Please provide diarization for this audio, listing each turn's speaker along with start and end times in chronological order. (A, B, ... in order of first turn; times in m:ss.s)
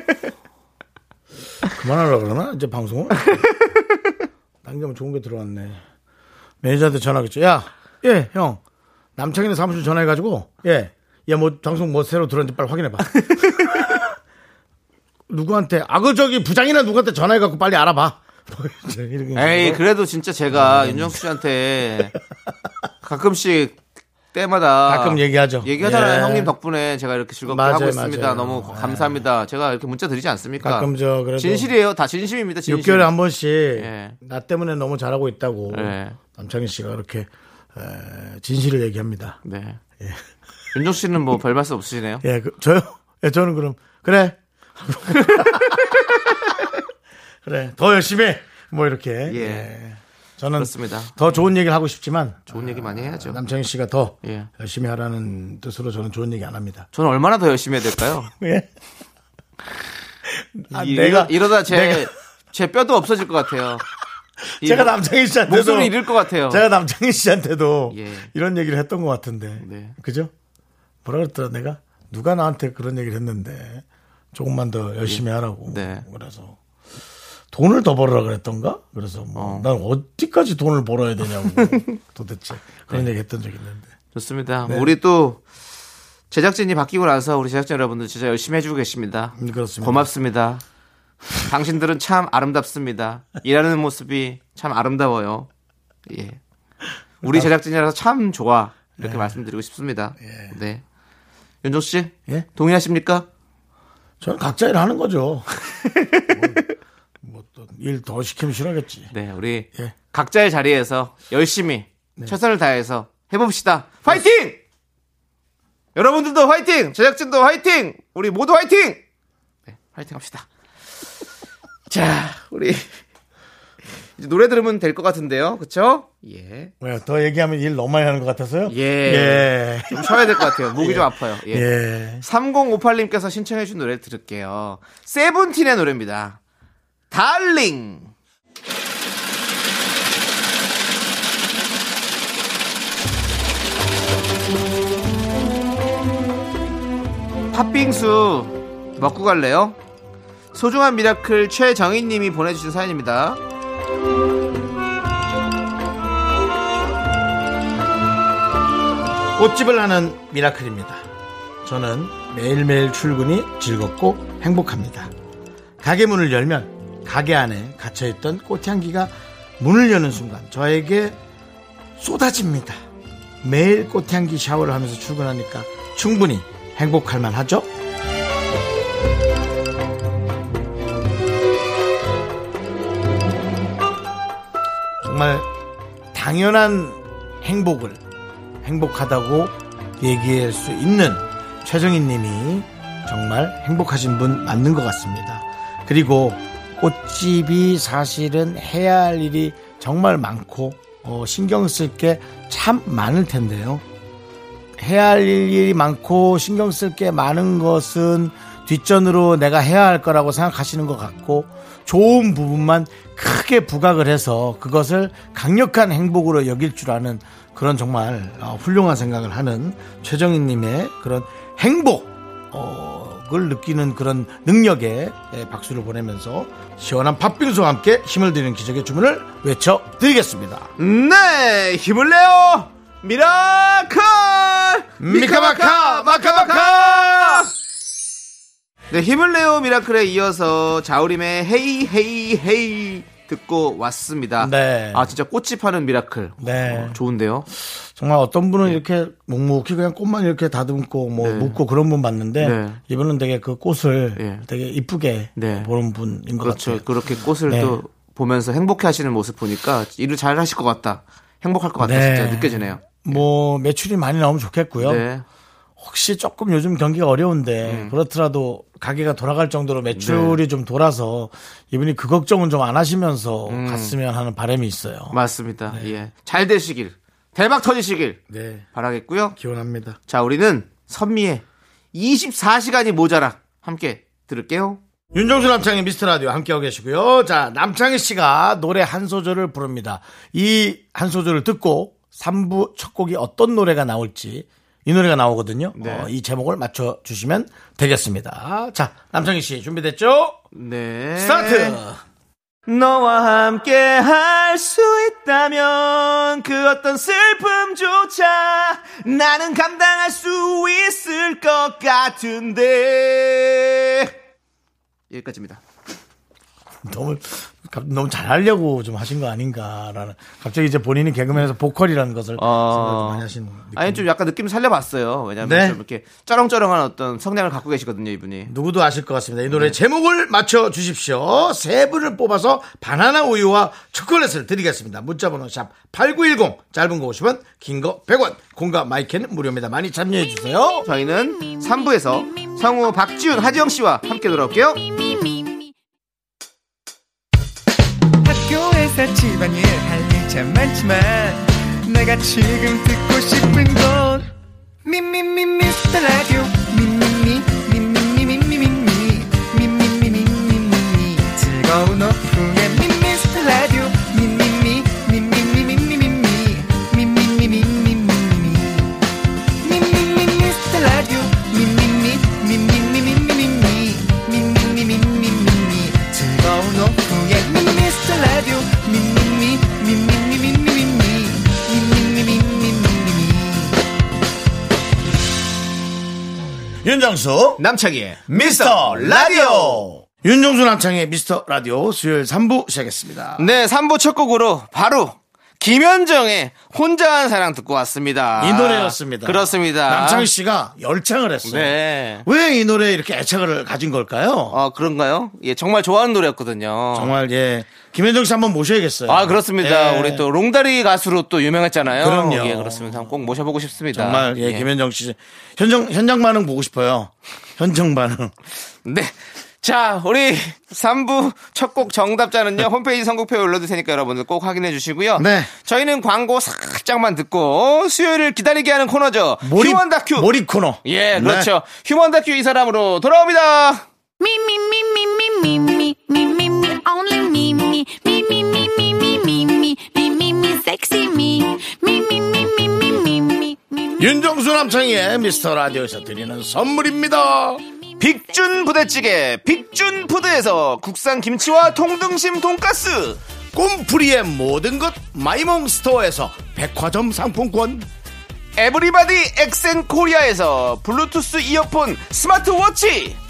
0:01.7-0:03.5 A
0:04.6-0:05.8 A
0:06.6-0:08.6 A
0:09.2-0:14.1 A
0:15.3-0:19.8 A
0:19.3-0:22.1 B
0:20.5-0:21.2 A
0:23.0-0:23.8 B
0:24.3-0:33.1 B
0:24.8-0:26.5 A
0:27.4-0:29.2 A
0:30.6-0:31.7 A
0:32.6-0:39.4 A
0:33.8-0:34.2 B
0:35.7-0:36.2 B
0:39.4-0:39.8 B
0:40.7-0:42.2 B
0:42.2-0:46.8 A
0:45.2-0:46.0 B
0:47.4-0:56.9 A
0:49.3-0:49.7 B
0:50.6-0:51.2 B
0:52.5-0:53.4 B
0:54.2-0:54.5 B
0:56.9-0:58.3 B
0:58.4-0:58.7 A
1:00.3-1:02.1 A
1:00.7-1:03.8 B
1:04.6-1:10.3 A
1:04.6-1:04.9 B
1:05.4-1:06.6 B
1:07.9-1:08.3 B
1:09.6-1:09.9 B
1:11.0-1:16.6 A
1:15.0-1:16.0 B
1:17.5-1:23.9 A
1:19.3-1:19.7 B
1:21.5-1:21.9 B
1:24.1-1:25.4 B
1:24.6-1:24.9 A
1:26.3-1:30.6 B
1:29.4-1:30.1 A
1:31.4-1:35.5 B
1:36.1-1:36.4 B
1:37.2-1:37.5 A
1:37.2-1:40.8 B
1:39.0-1:39.4 A
1:40.2-1:40.5 A
1:41.6-1:43.3 B
1:44.2-1:45.5 A
1:45.9-1:46.6 B
1:46.3-1:46.6 A
1:47.2-1:49.1 A
1:49.1-1:54.6 B
1:56.0-1:59.0 B
1:59.7-2:00.5 B
2:01.9-2:03.0 B
2:04.2-2:06.7 B
2:06.8-2:12.2 A
2:08.7-2:11.7 B
2:12.2-2:16.4 B
2:17.1-2:18.1 B
2:27.5-2:29.8 B
2:30.5-2:33.4 B
2:39.4-2:41.0 A
2:41.6-2:45.1 A
2:45.8-2:51.2 A
2:52.0-2:52.8 A
2:53.4-2:57.7 A
3:05.0-3:05.5 A
3:06.1-3:08.0 A
3:08.6-3:23.8 A
3:24.8-3:50.7 A
3:50.8-3:57.5 B
3:55.0-3:57.4 A
3:58.9-4:07.5 B
4:04.4-4:05.1 A
4:06.4-4:07.0 A
4:07.8-4:16.8 A
4:11.2-4:11.6 B
4:12.4-4:12.8 B
4:14.2-4:14.4 B
4:15.4-4:15.7 B
4:16.4-4:23.2 B
4:17.5-4:17.8 A
4:21.8-4:25.0 A
4:24.8-4:25.2 B
4:25.8-4:35.2 A
4:27.6-4:27.9 B
4:29.9-4:30.4 B
4:33.5-4:33.9 B
4:35.1-4:38.2 B
4:38.3-4:38.6 A
4:38.7-4:39.3 B
4:39.3-4:40.0 A
4:40.1-4:44.8 B
4:45.1-5:00.4 A
4:55.8-4:56.1 B
5:00.5-5:01.8 B
5:01.2-5:02.0 A
5:02.7-5:14.1 B
5:15.1-5:15.6 B
5:16.8-5:24.0 A
5:22.4-5:28.5 B
5:25.4-5:25.8 A
5:28.5-5:40.8 A
5:29.5-5:29.7 B
5:40.8-5:44.8 B
5:44.8-5:45.7 C
5:48.2-5:54.3 D
5:54.8-6:08.9 D
6:09.6-6:23.8 D
6:26.8-6:27.6 A
6:27.6-6:29.9 B
6:28.3-6:33.5 A
6:33.4-6:40.3 B
6:38.4-6:44.6 A
6:41.4-6:42.2 B
6:44.5-6:47.1 B
6:46.9-6:50.2 A
6:49.1-6:54.7 B
6:52.0-6:53.1 A
6:53.9-6:58.3 A
6:58.8-7:10.3 B
7:05.2-7:05.5 A
7:09.4-7:11.5 A
7:10.8-7:13.8 B
7:14.2-7:24.1 C
7:24.0-7:27.6 A
7:28.0-7:33.2 B
7:28.0-7:28.7 C
7:33.5-7:37.9 A
7:38.6-7:43.2 B